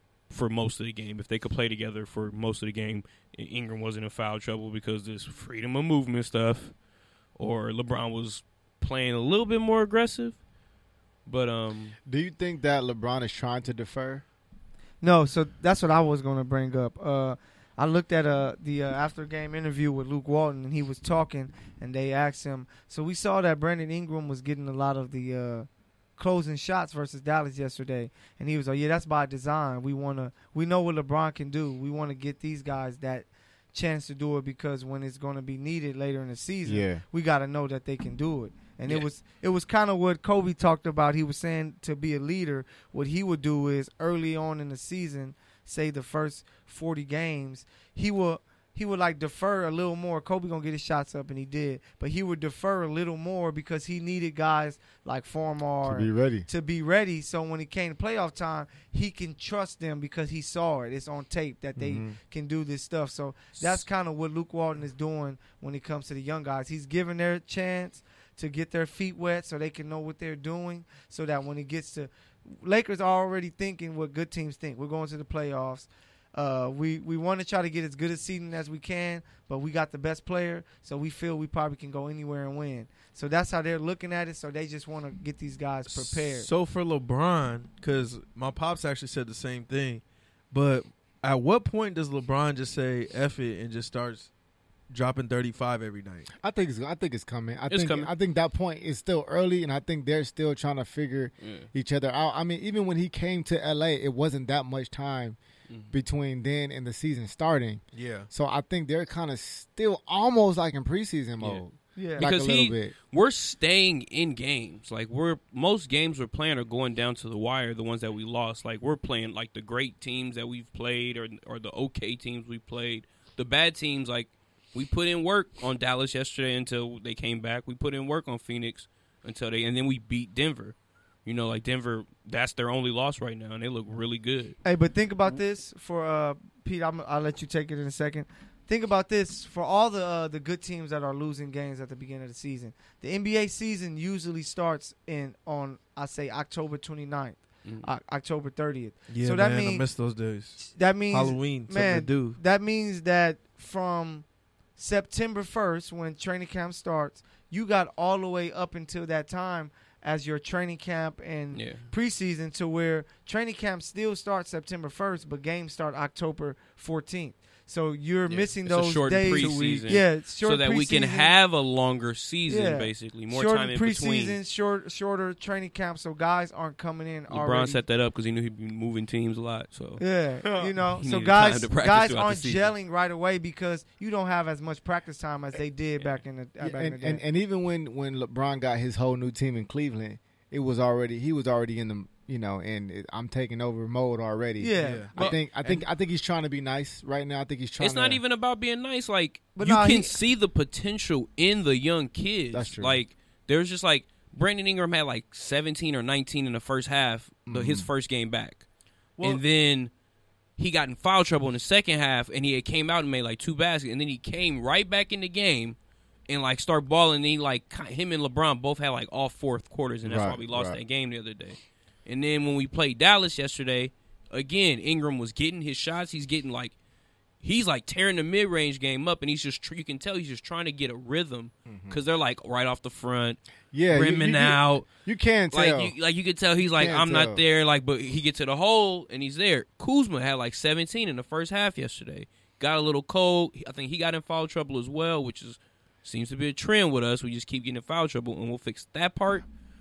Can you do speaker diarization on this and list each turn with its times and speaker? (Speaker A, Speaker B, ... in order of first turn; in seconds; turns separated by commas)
Speaker A: 0.3-6.7, Speaker A: 7.4-10.4, Speaker A: 11.2-11.9, Speaker B: 12.1-14.2, Speaker C: 15.0-86.5, Speaker B: 36.6-37.0, Speaker B: 55.8-56.5, Speaker B: 61.8-62.2, Speaker A: 63.6-63.8, Speaker D: 85.9-94.3, Speaker D: 94.9-96.3, Speaker B: 96.4-105.4, Speaker A: 97.7-98.1, Speaker A: 101.4-101.7, Speaker A: 105.7-105.9, Speaker B: 105.9-112.9, Speaker D: 107.9-108.3, Speaker C: 112.0-112.3, Speaker A: 112.2-134.6, Speaker C: 134.6-149.8, Speaker D: 149.1-152.4, Speaker C: 150.6-154.2, Speaker C: 154.8-171.3, Speaker A: 161.5-161.8, Speaker A: 168.3-174.4, Speaker D: 169.4-169.8, Speaker C: 172.5-177.8, Speaker A: 177.3-180.0, Speaker C: 180.0-187.2, Speaker D: 180.4-180.7, Speaker A: 181.0-182.7, Speaker B: 186.6-198.2, Speaker C: 194.6-195.1, Speaker D: 194.8-195.8, Speaker A: 197.8-208.6, Speaker C: 199.5-200.2, Speaker B: 202.5-203.0, Speaker B: 207.5-207.9, Speaker D: 209.2-209.4, Speaker A: 209.2-209.9, Speaker A: 210.6-215.8, Speaker A: 216.3-226.7, Speaker B: 220.0-220.8, Speaker A: 227.4-234.9, Speaker B: 231.7-232.0, Speaker B: 233.7-235.9, Speaker A: 235.5-249.4, Speaker B: 236.6-237.4